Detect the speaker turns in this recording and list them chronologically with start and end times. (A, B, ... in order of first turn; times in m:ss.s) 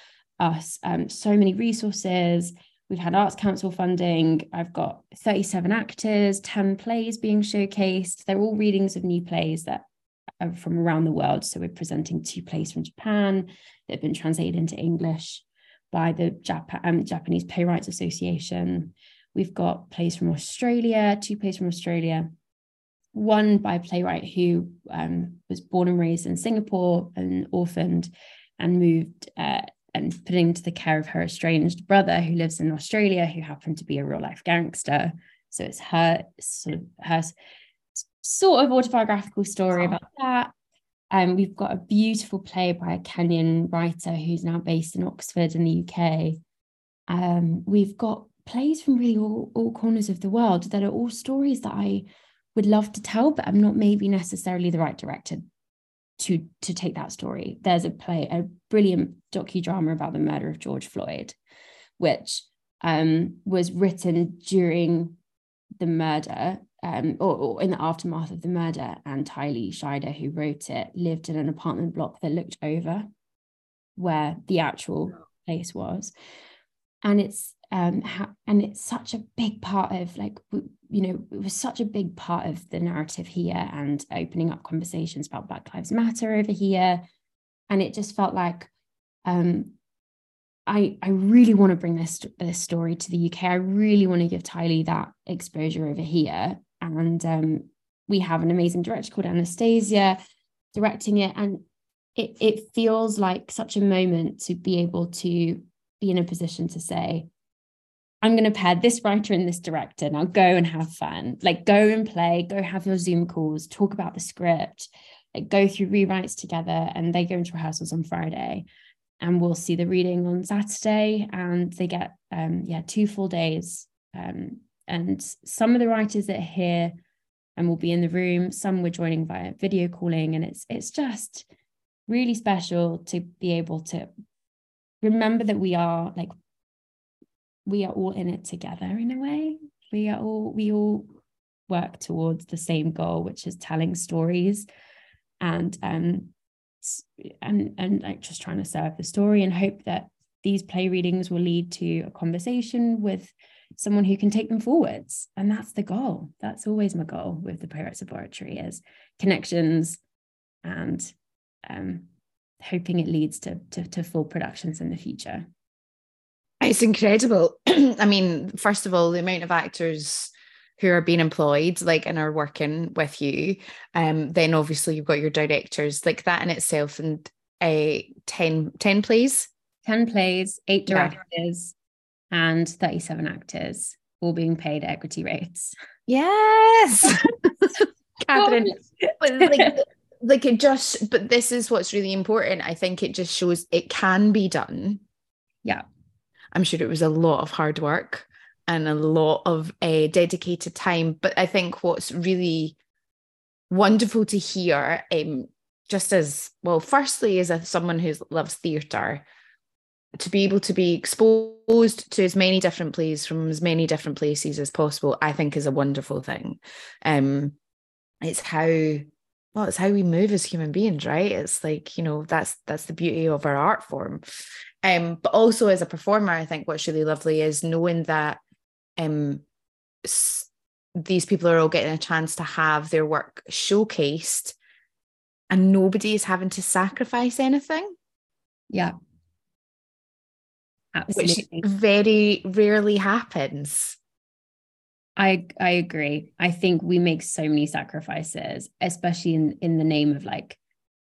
0:00.4-0:09.8 A
0:10.4-0:22.3 A
0:23.1-0:37.3 A
0:38.0-0:40.5 A
0:41.1-0:46.4 A
0:47.1-0:55.4 A
0:56.2-1:01.4 A
1:02.0-1:05.2 A
1:05.8-1:13.1 A
1:14.0-1:16.1 A
1:17.0-1:27.0 A
1:27.7-1:28.7 A
1:29.2-1:29.7 A
1:30.7-1:40.2 A
1:40.7-1:41.6 A
1:42.2-1:47.3 A
1:48.2-1:58.6 A
1:59.2-2:07.0 A
2:07.6-2:11.5 A
2:12.1-2:14.1 A
2:15.0-2:16.3 A
2:17.6-2:21.1 A
2:21.7-2:24.6 A
2:25.4-2:40.0 A
2:40.6-2:41.1 A
2:41.6-2:42.1 A
2:42.6-2:45.5 A
2:46.6-2:59.5 B
2:59.8-3:01.7 A
3:00.9-3:01.2 B
3:02.3-3:05.7 A
3:06.1-3:15.0 B
3:08.3-3:08.8 A
3:09.4-3:09.7 A
3:16.5-3:22.8 B
3:23.7-3:29.2 B
3:30.2-3:37.6 B
3:38.2-3:44.2 B
3:44.8-3:48.4 B
3:49.0-3:49.4 B
3:50.0-3:54.5 B
3:55.5-3:57.9 B
4:00.9-4:01.7 A
4:01.1-4:04.0 B
4:05.2-4:10.6 A